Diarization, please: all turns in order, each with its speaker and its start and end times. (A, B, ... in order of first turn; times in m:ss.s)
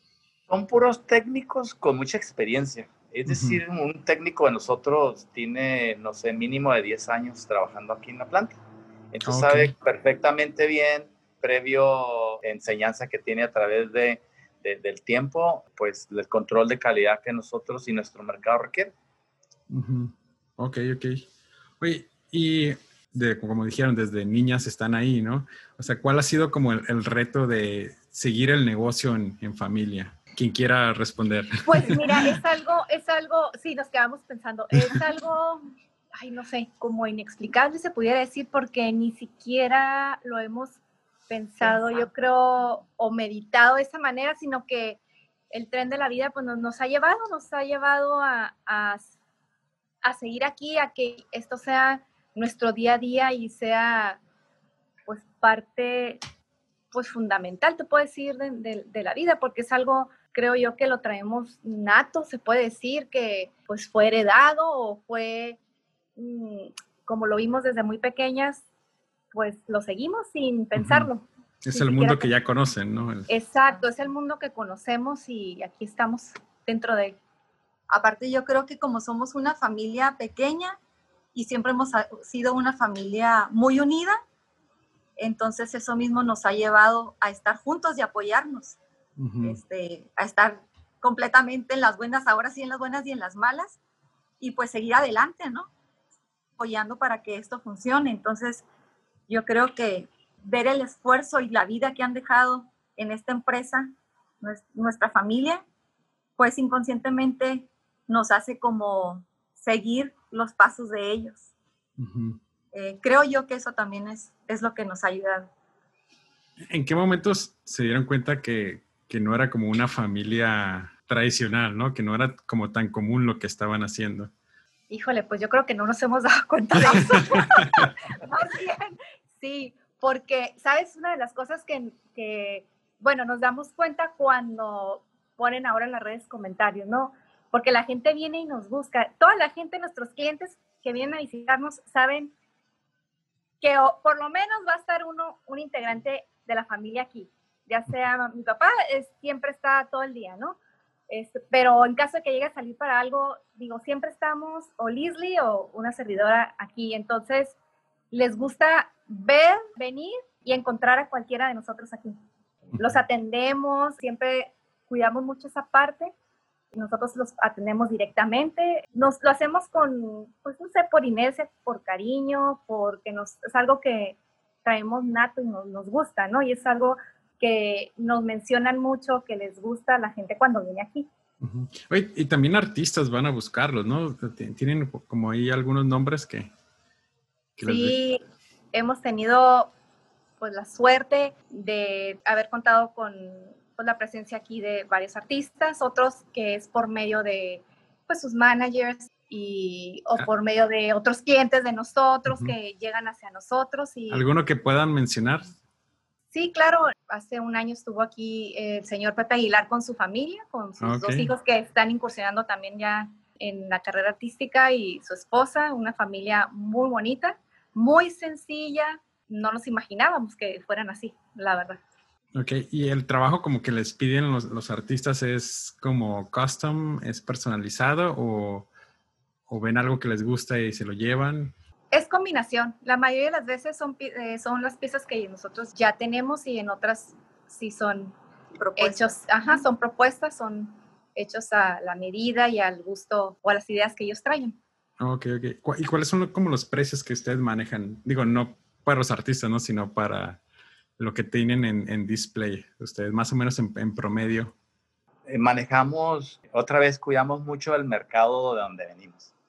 0:00.5-0:08.6 A
0:03.3-0:03.6 B
0:09.1-0:18.9 A
0:09.3-0:09.7 B
0:19.7-0:21.3 B
0:21.8-0:32.4 B
0:31.7-0:45.0 C
0:45.5-0:49.1 C
0:50.0-0:54.2 C
0:55.1-0:56.2 C
0:56.9-1:05.6 C
1:06.2-1:08.6 C
1:09.3-1:12.3 C
1:10.8-1:11.1 B
1:11.6-1:13.3 B
1:13.3-1:17.2 C
1:17.9-1:20.8 D
1:21.3-1:24.2 D
1:25.2-1:28.8 D
1:29.2-1:29.6 B
1:29.4-1:33.8 D
1:34.4-1:35.7 D
1:36.6-1:38.6 D
1:39.3-1:45.6 D
1:46.4-1:51.5 D
1:52.0-1:52.4 B
1:52.7-1:55.5 D
1:56.7-2:04.3 B
2:04.9-2:22.3 C
2:06.8-2:07.9 B
2:23.6-2:30.6 C
2:31.1-2:37.6 C
2:38.1-2:42.2 C
2:42.8-2:46.1 C
2:46.7-3:01.1 C
3:01.4-3:06.5 B
3:07.6-3:08.0 B
3:07.7-3:08.2 C
3:08.7-3:09.7 C
3:10.4-3:24.2 C
3:22.3-3:22.6 B
3:24.1-3:25.6 B
3:26.3-3:41.8 C
3:30.8-3:31.3 B
3:42.4-3:48.7 B
3:49.5-3:51.5 B
3:51.9-3:58.2 C
3:58.6-3:59.2 D
3:58.8-4:04.6 C
4:05.0-4:10.4 B
4:11.0-4:14.5 B
4:15.3-4:19.3 A